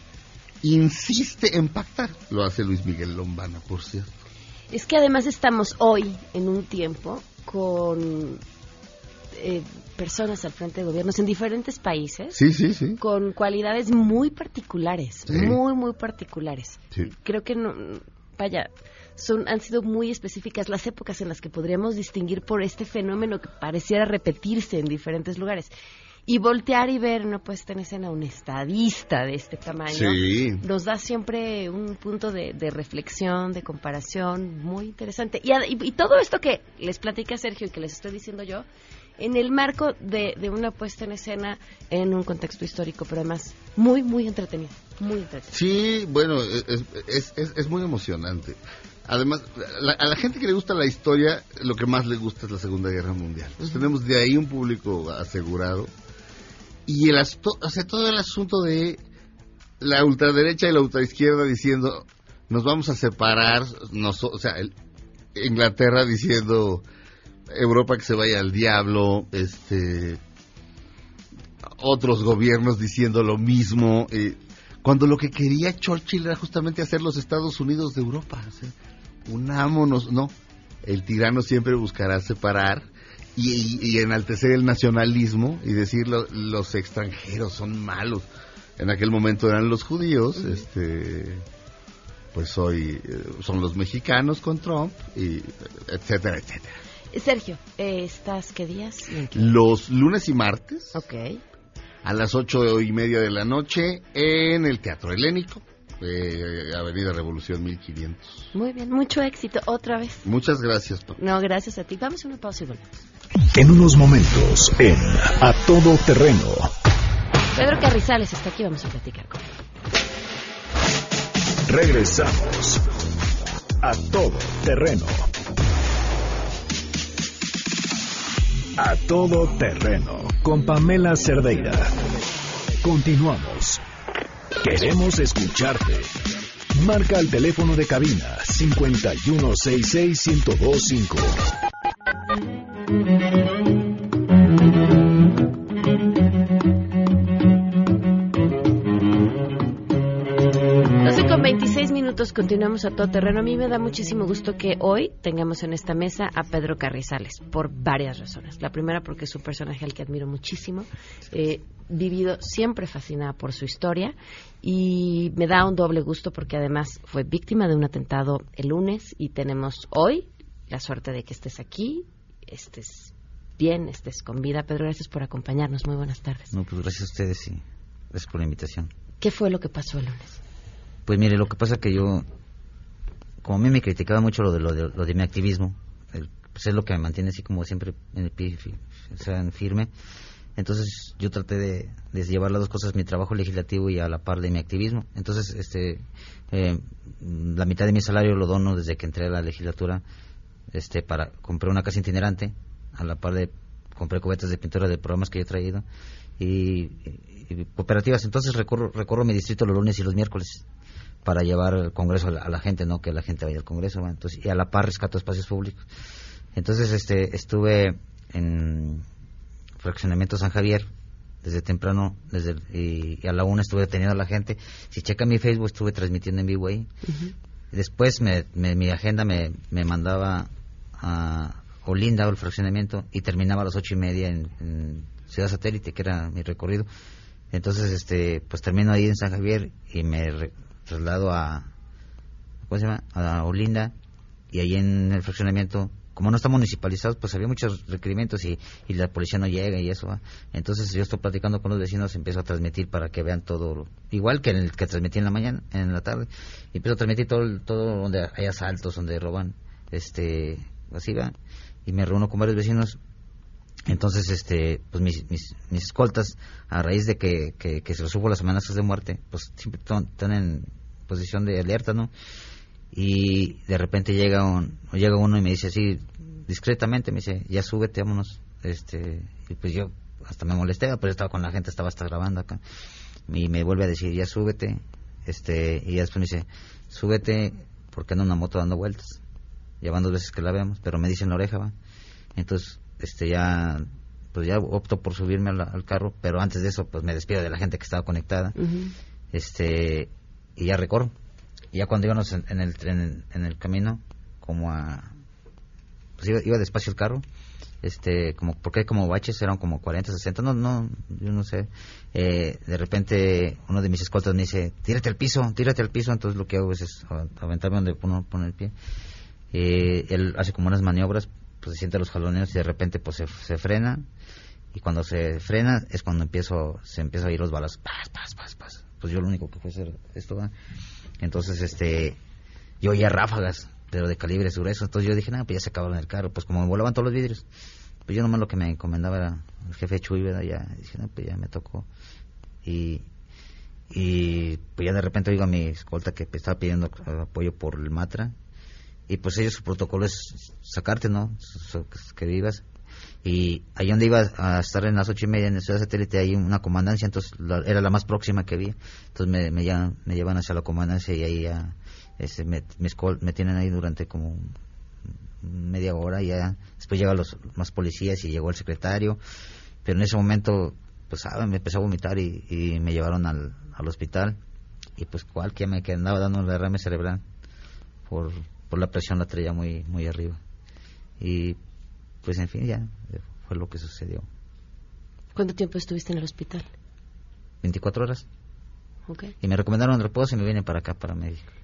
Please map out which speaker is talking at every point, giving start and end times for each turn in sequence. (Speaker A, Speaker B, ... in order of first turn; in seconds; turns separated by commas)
Speaker A: 0.6-4.2, Speaker B: 4.7-8.4, Speaker B: 9.3-12.4, Speaker A: 12.3-13.0, Speaker B: 13.0-25.7, Speaker A: 15.3-15.6, Speaker B: 26.3-38.6, Speaker A: 29.9-30.6, Speaker B: 39.2-45.5, Speaker A: 45.5-55.9, Speaker B: 53.6-53.9, Speaker A: 56.9-59.0, Speaker A: 59.8-64.7, Speaker A: 65.3-66.8, Speaker A: 67.5-70.2, Speaker A: 71.7-78.7, Speaker A: 79.3-80.3, Speaker A: 80.8-88.3, Speaker A: 88.8-91.4, Speaker A: 92.3-96.8, Speaker B: 97.1-99.6, Speaker A: 99.3-101.0, Speaker B: 100.9-101.4, Speaker A: 102.0-108.5, Speaker B: 108.5-110.2, Speaker A: 110.2-111.2, Speaker B: 111.2-112.9, Speaker C: 113.5-116.7, Speaker B: 117.5-119.5, Speaker C: 121.7-122.8, Speaker C: 123.8-125.3, Speaker C: 128.8-132.0, Speaker C: 132.8-133.8, Speaker C: 134.6-136.1, Speaker C: 136.8-141.4, Speaker B: 151.0-176.5, Speaker D: 176.5-178.9, Speaker B: 179.2-180.4, Speaker D: 181.1-182.2, Speaker D: 183.4-189.9, Speaker D: 190.6-200.0, Speaker D: 200.7-205.8, Speaker D: 206.4-210.6, Speaker D: 211.2-215.9, Speaker D: 216.6-219.1, Speaker D: 219.8-220.9, Speaker D: 221.4-226.9, Speaker B: 227.1-227.3, Speaker D: 227.7-236.9, Speaker D: 237.5-241.7, Speaker D: 242.7-243.9, Speaker D: 244.5-261.4, Speaker D: 261.9-263.0, Speaker D: 263.9-272.1, Speaker D: 272.9-282.6, Speaker D: 283.3-289.2, Speaker D: 289.8-291.7, Speaker D: 292.4-298.6, Speaker B: 298.6-298.9, Speaker D: 299.3-301.1, Speaker D: 301.7-305.1, Speaker D: 306.2-307.2, Speaker D: 307.8-318.7, Speaker D: 319.5-324.1, Speaker D: 324.7-330.5, Speaker D: 331.2-332.2, Speaker D: 332.8-337.4, Speaker D: 338.1-341.9, Speaker D: 342.6-343.1, Speaker D: 343.9-348.3, Speaker D: 349.1-352.6, Speaker D: 353.2-364.6, Speaker D: 365.4-369.2, Speaker D: 369.8-374.4, Speaker D: 375.0-377.2, Speaker D: 378.1-380.4, Speaker D: 381.2-381.6, Speaker D: 382.2-384.3, Speaker B: 385.4-386.7, Speaker D: 387.6-388.2, Speaker B: 389.1-389.3, Speaker D: 389.4-391.5